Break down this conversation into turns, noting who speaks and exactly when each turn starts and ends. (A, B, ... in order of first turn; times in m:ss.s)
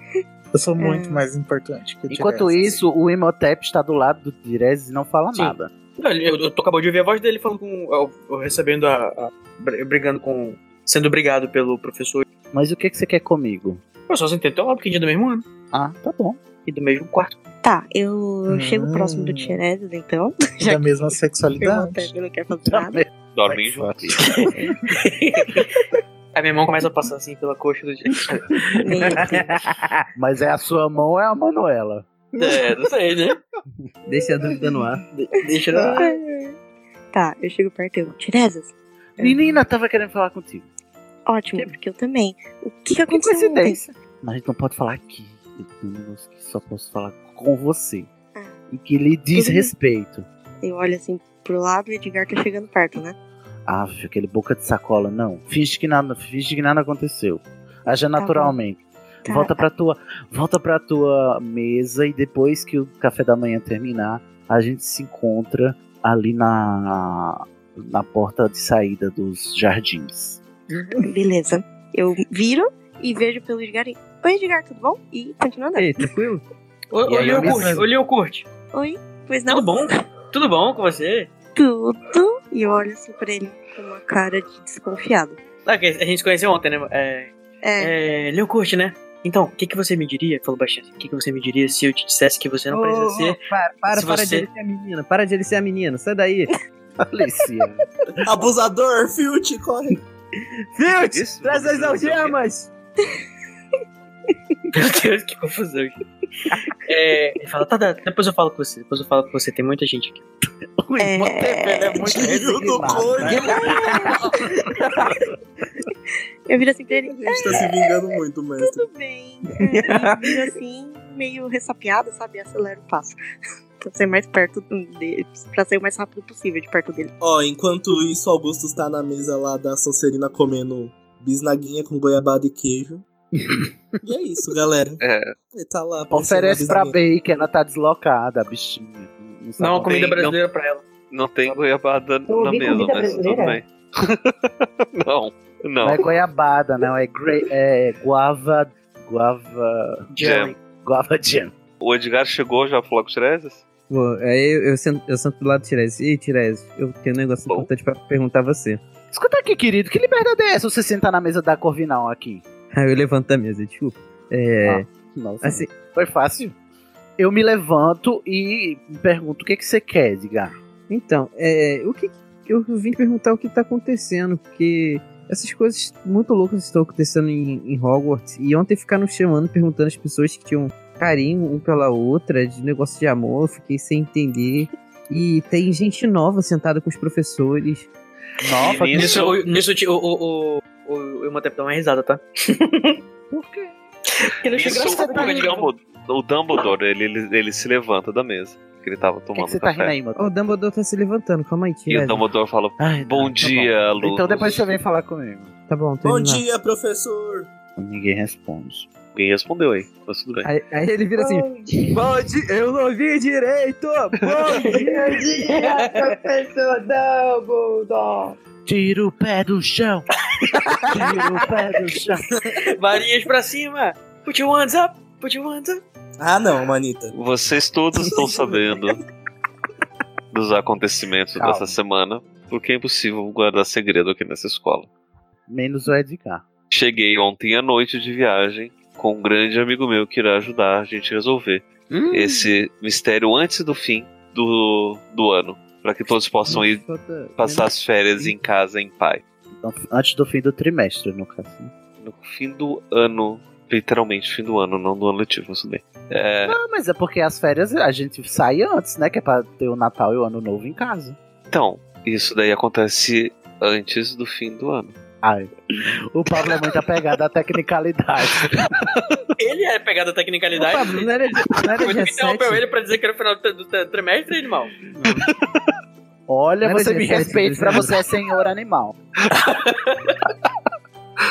0:00.5-0:02.8 A
0:00.8-0:01.2 B
0:02.1-0:05.7 C
0:05.3-0:12.2 D
0:12.5-0:13.8 C
0:14.1-0:15.4 D
0:15.7-0:16.4 C
0:16.6-0:17.4 D
0:17.6-0:20.8 B
0:18.5-0:19.6 A
0:20.6-0:22.1 A
0:21.6-0:23.0 B
0:22.7-0:24.2 C
0:23.3-0:24.2 E
0:24.2-0:25.6 D
0:26.3-0:29.1 D
0:28.8-0:29.5 B
0:29.3-0:29.8 F
0:30.1-0:32.0 C
0:32.4-0:33.4 D
0:34.1-0:35.0 F
0:35.3-0:36.0 D
0:35.9-0:36.6 B
0:37.1-0:39.6 B
0:39.2-0:40.7 C
0:41.2-0:43.8 B
0:43.1-0:48.1 C
0:48.7-0:50.2 C
0:49.3-0:49.7 B
0:50.6-0:53.1 B
0:53.7-1:10.4 C
0:58.1-0:58.5 B
0:59.2-0:59.6 B
1:11.0-1:16.0 B
1:15.7-1:16.4 F
1:16.9-1:18.4 D
1:17.0-1:17.8 C
1:17.2-1:17.8 A
1:18.7-1:19.7 B
1:19.5-1:21.3 D
1:21.5-1:25.4 B
1:25.6-1:34.4 D
1:27.6-1:27.9 B
1:32.7-1:36.5 F
1:37.0-1:37.8 C
1:38.2-1:40.0 G
1:40.8-1:42.7 F
1:40.9-1:42.4 E
1:44.7-1:46.0 D
1:46.8-1:50.2 D
1:50.8-1:54.3 C
1:51.0-1:52.1 B
1:52.0-1:53.8 G
1:53.3-1:54.2 B
1:56.5-1:58.0 B
1:57.2-1:58.8 G
1:58.6-2:03.2 B
1:59.7-2:00.2 F
2:03.8-2:07.1 B
2:07.2-2:13.0 G
2:14.0-2:17.0 G
2:15.0-2:15.3 E
2:16.1-2:20.3 C
2:19.6-2:20.8 D
2:19.9-2:20.4 E
2:21.1-2:26.1 E
2:22.3-2:23.6 H
2:25.8-2:30.0 C
2:30.1-2:30.6 D
2:30.2-2:30.5 E
2:30.8-2:31.5 C
2:31.8-2:33.6 E
2:33.9-2:38.8 F
2:39.1-2:42.4 C
2:42.7-2:44.8 F
2:44.6-2:46.5 C
2:45.4-2:45.7 F
2:47.2-2:50.5 C
2:50.9-3:07.9 F
3:08.4-3:09.3 C
3:08.5-3:09.4 E
3:08.9-3:13.0 D
3:13.3-3:13.7 C
3:14.2-3:15.7 D
3:14.5-3:20.0 E
3:14.8-3:15.5 C
3:19.3-3:20.3 C
3:20.2-3:22.2 F
3:21.9-3:24.7 E
3:22.8-3:25.5 C
3:25.7-3:26.4 F
3:26.0-3:27.5 G
3:27.8-3:28.9 C
3:29.1-3:30.5 E
3:30.4-3:35.3 F
3:31.2-3:32.0 H
3:34.5-3:38.4 H
3:38.6-3:40.0 C
3:40.9-3:42.2 C
3:42.6-3:45.8 D
3:46.2-3:47.1 G
3:47.1-3:49.0 E
3:50.3-3:54.9 E
3:51.4-3:51.8 C
3:55.5-3:56.4 C
3:56.7-4:06.8 E
4:01.9-4:02.5 C
4:06.4-4:08.4 F
4:07.4-4:09.2 E
4:09.6-4:11.7 C
4:12.0-4:16.6 E
4:16.4-4:21.2 C
4:21.5-4:24.9 E
4:25.2-4:25.5 C
4:26.1-4:28.9 C
4:29.4-4:34.8 D
4:30.6-4:32.6 F
4:35.0-4:35.2 C
4:36.3-4:39.0 C
4:36.6-4:37.9 F
4:39.3-4:40.2 D